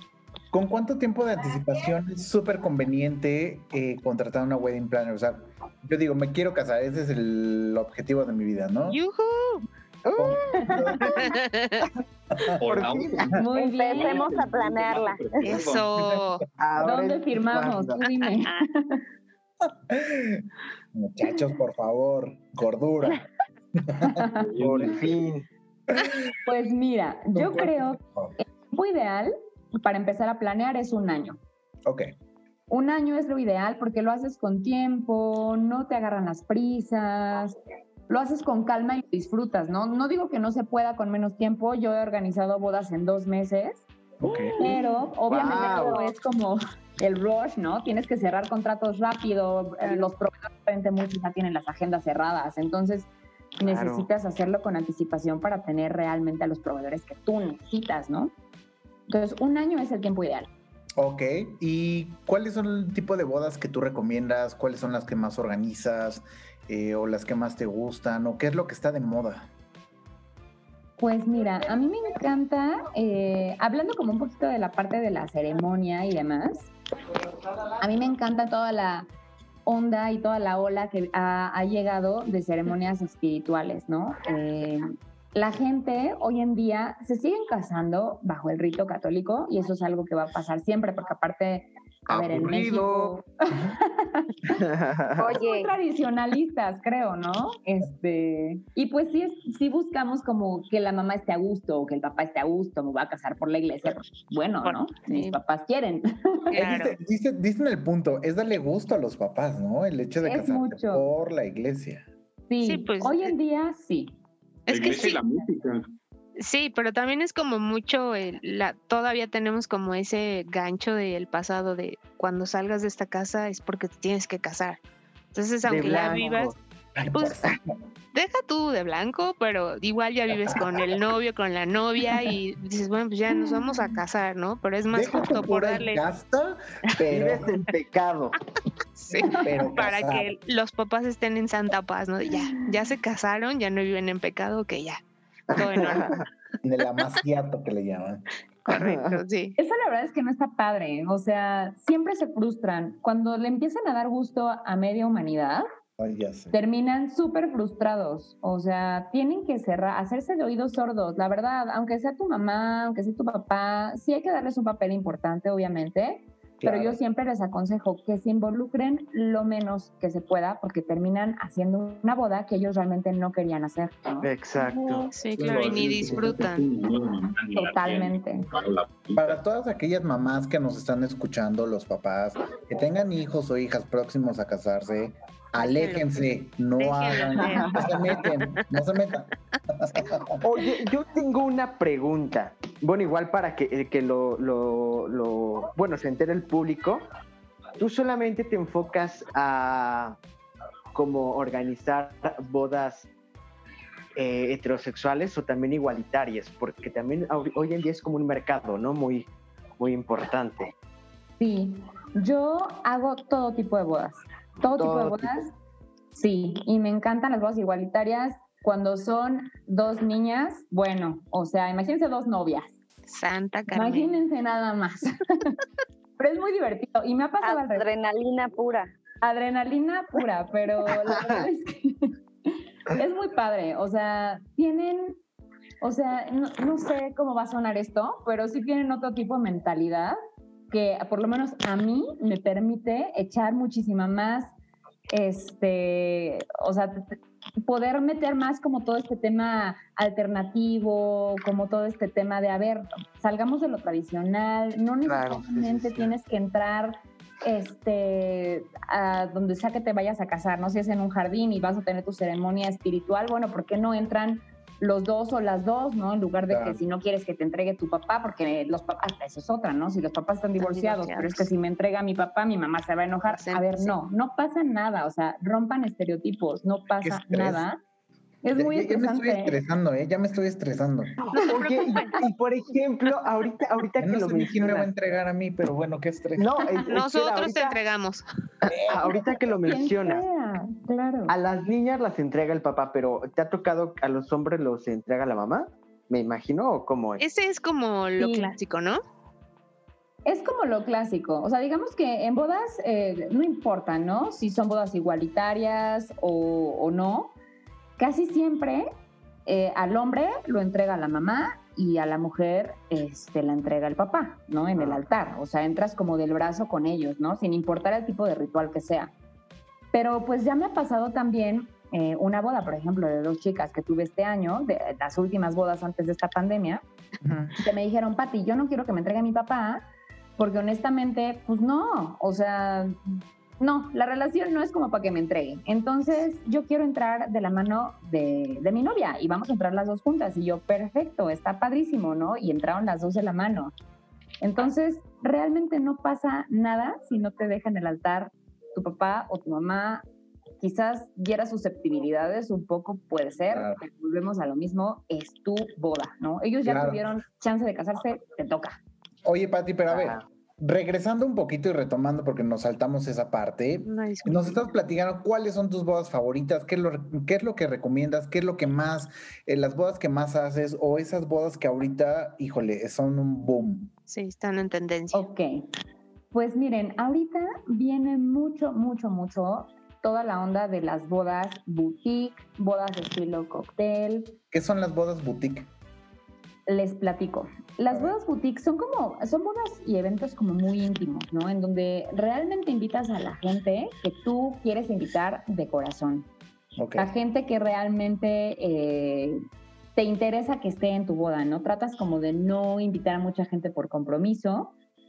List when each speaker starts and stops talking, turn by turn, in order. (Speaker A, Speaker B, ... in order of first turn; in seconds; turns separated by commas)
Speaker A: 0.5-9.0, Speaker B: 8.9-9.6, Speaker C: 10.0-11.3, Speaker A: 10.2-11.2, Speaker B: 11.2-11.9, Speaker D: 12.6-15.9, Speaker C: 12.7-13.4, Speaker E: 13.4-14.3, Speaker F: 13.5-15.6, Speaker B: 15.4-16.4, Speaker C: 16.6-18.0, Speaker E: 16.8-19.0, Speaker A: 19.6-25.0, Speaker E: 24.0-24.5, Speaker D: 24.3-25.1, Speaker C: 24.8-25.4, Speaker E: 26.4-31.4, Speaker A: 27.3-28.3, Speaker A: 31.8-32.1, Speaker E: 32.7-37.5, Speaker E: 38.1-43.8, Speaker A: 44.2-44.6, Speaker E: 44.6-53.1, Speaker C: 44.6-46.0, Speaker E: 53.6-58.3, Speaker C: 53.6-54.1, Speaker E: 59.1-60.5, Speaker A: 61.0-69.5, Speaker E: 71.0-76.7, Speaker E: 77.8-79.0, Speaker E: 79.7-94.6, Speaker A: 92.1-93.8, Speaker C: 94.5-95.3, Speaker F: 95.2-95.7, Speaker E: 95.3-106.4, Speaker B: 104.6-105.4, Speaker B: 106.5-107.0, Speaker A: 106.6-112.0, Speaker E: 110.2-111.0, Speaker E: 112.5-114.1, Speaker B: 112.6-113.3, Speaker B: 114.7-115.2, Speaker D: 114.7-115.9, Speaker B: 116.4-124.8, Speaker B: 125.3-126.5, Speaker C: 125.6-126.5, Speaker A: 127.0-127.6, Speaker B: 127.1-127.4, Speaker B: 128.1-136.0, Speaker A: 134.9-137.5, Speaker C: 137.0-138.4, Speaker B: 139.0-146.2, Speaker A: 139.1-140.3, Speaker C: 145.5-146.2, Speaker A: 146.6-148.2, Speaker B: 148.7-149.6, Speaker C: 148.7-149.2, Speaker E: 149.6-155.7, Speaker A: 156.0-156.5, Speaker E: 156.5-174.3, Speaker A: 166.6-167.0, Speaker C: 174.2-175.1, Speaker B: 174.7-176.7, Speaker D: 175.4-179.4, Speaker A: 176.0-176.4, Speaker E: 177.5-178.4, Speaker A: 179.1-190.4, Speaker B: 185.6-186.0, Speaker B: 186.8-188.6, Speaker C: 187.3-187.9, Speaker C: 190.4-197.0, Speaker C: 197.8-200.2, Speaker C: 200.9-203.1, Speaker C: 204.2-210.7, Speaker E: 211.4-215.5, Speaker C: 214.8-215.3, Speaker E: 216.1-222.7, Speaker B: 223.1-224.2, Speaker E: 223.7-225.6, Speaker E: 226.2-227.8, Speaker F: 227.4-228.9, Speaker E: 229.2-235.2, Speaker E: 235.8-240.2, Speaker E: 240.7-244.5, Speaker E: 245.1-277.8, Speaker C: 255.1-256.1, Speaker A: 266.5-266.8, Speaker B: 270.6-271.5, Speaker B: 273.3-273.9, Speaker A: 277.0-277.6, Speaker E: 278.4-279.6, Speaker A: 278.5-281.2, Speaker C: 281.2-284.9, Speaker B: 281.4-282.2, Speaker A: 284.0-286.5, Speaker C: 286.4-287.8, Speaker B: 286.9-288.2, Speaker C: 288.6-290.2, Speaker A: 288.6-289.2, Speaker E: 289.6-291.3, Speaker C: 291.3-297.2, Speaker B: 297.2-299.0, Speaker E: 298.2-298.5, Speaker E: 300.2-307.3, Speaker E: 308.0-308.9, Speaker E: 309.4-319.1, Speaker E: 319.9-326.8, Speaker A: 327.2-327.6, Speaker E: 327.6-329.8, Speaker E: 330.4-343.7, Speaker E: 344.4-350.0, Speaker E: 350.6-358.8, Speaker A: 353.5-353.8, Speaker A: 356.6-357.0, Speaker A: 359.2-373.9, Speaker C: 359.9-360.2, Speaker B: 363.9-364.6, Speaker B: 374.1-375.2, Speaker E: 375.1-375.6, Speaker E: 376.3-384.4, Speaker A: 384.5-385.7, Speaker E: 386.7-396.3, Speaker A: 387.9-388.1, Speaker A: 396.8-397.1, Speaker E: 396.9-399.4, Speaker E: 399.9-404.7